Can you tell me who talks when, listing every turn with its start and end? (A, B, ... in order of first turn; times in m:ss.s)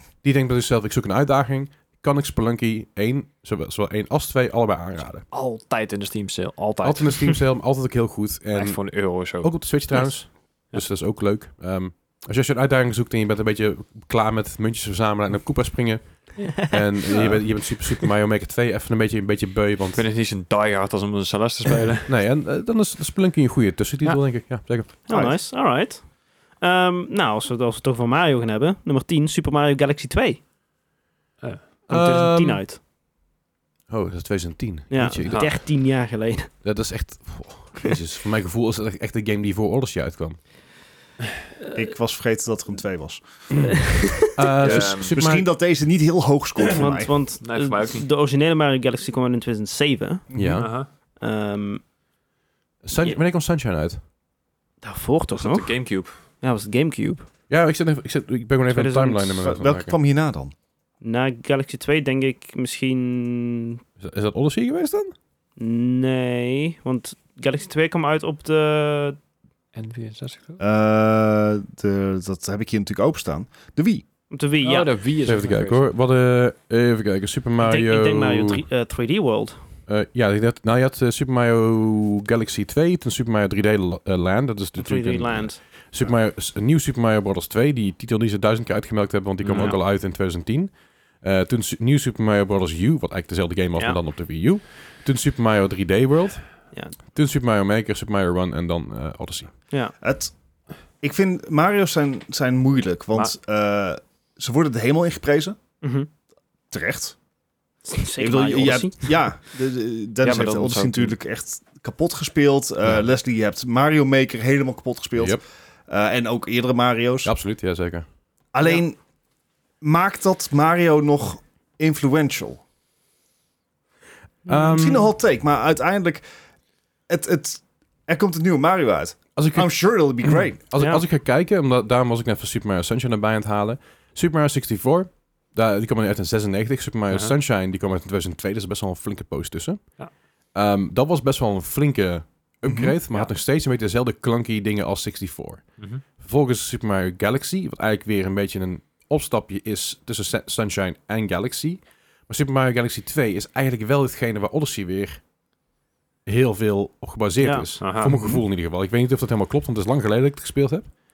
0:00.2-0:05.2 A
0:05.3-0:07.4 B
0:06.8-0:20.0 A
0:08.5-0:10.0 B
0:16.5-0:17.2 C
0:17.1-0:17.4 B
0:19.9-0:22.1 B
0:22.1-0:24.9 A
0:25.1-0:30.4 C
0:25.1-0:25.4 D
0:31.4-0:31.9 B
0:31.9-0:32.6 A
0:31.9-0:32.8 C
0:33.9-0:35.6 A
0:34.9-0:36.5 C
0:35.2-0:35.5 B
0:36.6-0:40.4 A
0:41.6-0:41.9 C
0:41.7-0:43.7 D
0:43.5-0:45.5 A
0:43.9-0:44.3 C
0:44.6-0:45.2 B
0:44.6-0:47.1 D
0:46.7-0:51.8 C
0:47.4-0:48.1 B
0:50.3-0:50.7 D
0:50.3-0:50.7 A
0:50.6-0:50.9 B
0:52.8-0:54.0 A
0:54.8-0:57.2 C
0:55.3-0:56.1 B
0:57.5-1:00.0 A
0:58.7-0:59.3 C
0:59.4-1:00.5 D
1:01.0-1:03.8 C
1:04.0-1:05.1 A
1:05.6-1:09.2 C
1:09.7-1:10.6 B
1:10.6-1:14.0 D
1:14.3-1:14.9 C
1:14.6-1:15.8 B
1:15.2-1:18.6 A
1:17.6-1:19.6 C
1:19.9-1:39.6 A
1:24.8-1:25.6 C
1:29.4-1:29.8 B
1:29.5-1:29.8 C
1:40.0-1:40.3 D
1:41.0-1:45.6 D
1:45.8-1:46.1 C
1:46.7-1:47.2 D
1:47.8-1:49.1 C
1:48.2-1:57.3 D
1:50.2-1:51.1 B
1:55.2-1:55.4 A
1:57.2-1:58.1 A
1:58.5-1:59.0 D
1:59.8-2:02.6 D
2:04.4-2:04.7 C
2:04.4-2:05.1 A
2:04.7-2:06.2 D
2:07.1-2:10.6 D
2:09.4-2:35.2 A
2:10.8-2:11.0 C
2:22.6-2:22.9 D
2:36.2-2:40.9 A
2:37.4-2:37.7 C
2:37.8-2:38.4 B